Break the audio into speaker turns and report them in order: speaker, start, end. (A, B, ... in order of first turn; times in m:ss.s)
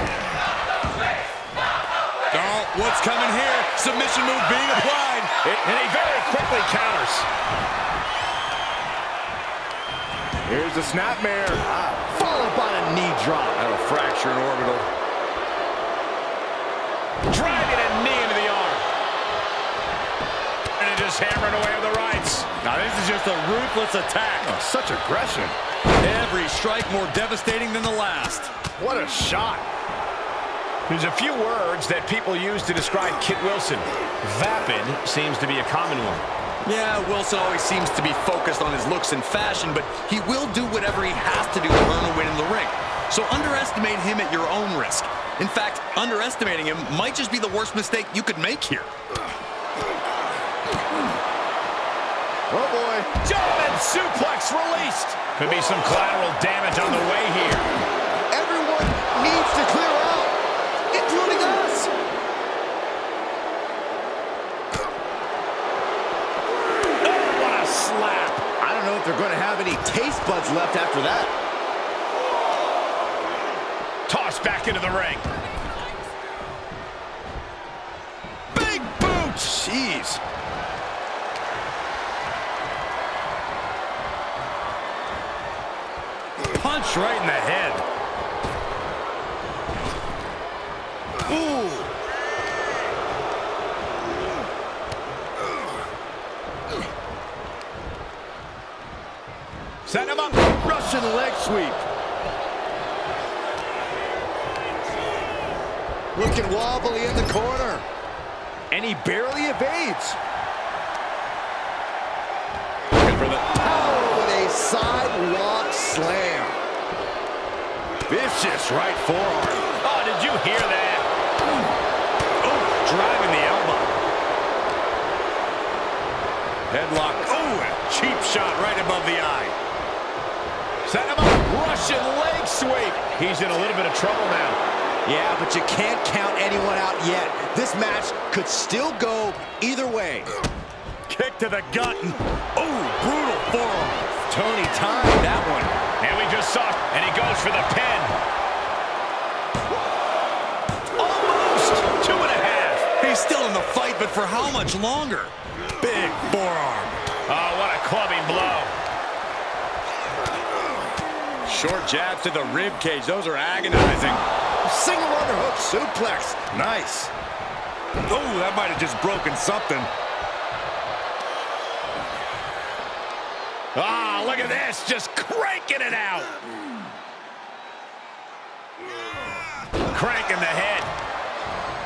0:02.3-0:05.3 A
0:05.4-0:07.3 B
0:10.4-0:13.6 C
0:13.6-0:14.9 A
0:17.3-0:18.8 B
0:20.8-0:22.5 B
0:22.6-0:24.6 A
0:24.4-0:25.6 C
0:26.0-0:28.5 A
0:28.8-0:29.6 C
0:30.9-0:36.2 B
0:36.6-0:48.9 A
0:52.5-0:53.1 C
0:53.2-0:57.7 B
0:58.3-1:00.4 C
1:00.9-1:01.9 C
1:07.0-1:08.4 B
1:08.6-1:11.3 C
1:14.1-1:15.2 B
1:18.5-1:20.2 C
1:26.5-1:27.8 A
1:31.2-1:31.9 C
1:39.9-1:40.4 B
1:39.9-1:41.8 C
1:46.1-1:47.8 C
1:48.7-1:50.2 C
1:52.9-1:53.4 A
1:53.5-1:56.6 C
1:58.1-1:59.7 C
1:59.8-2:01.0 B
2:02.4-2:04.0 A
2:06.7-2:09.5 A
2:10.9-2:14.6 B
2:15.0-2:20.3 C
2:21.1-2:24.2 A
2:24.3-2:25.7 C
2:26.0-2:28.1 B
2:31.0-2:32.9 B
2:33.0-2:37.0 A
2:37.3-2:38.7 B
2:41.5-2:44.2 A
2:44.6-2:47.1 C
2:48.1-2:49.9 A
2:53.8-2:56.4 B
2:59.9-3:00.9 B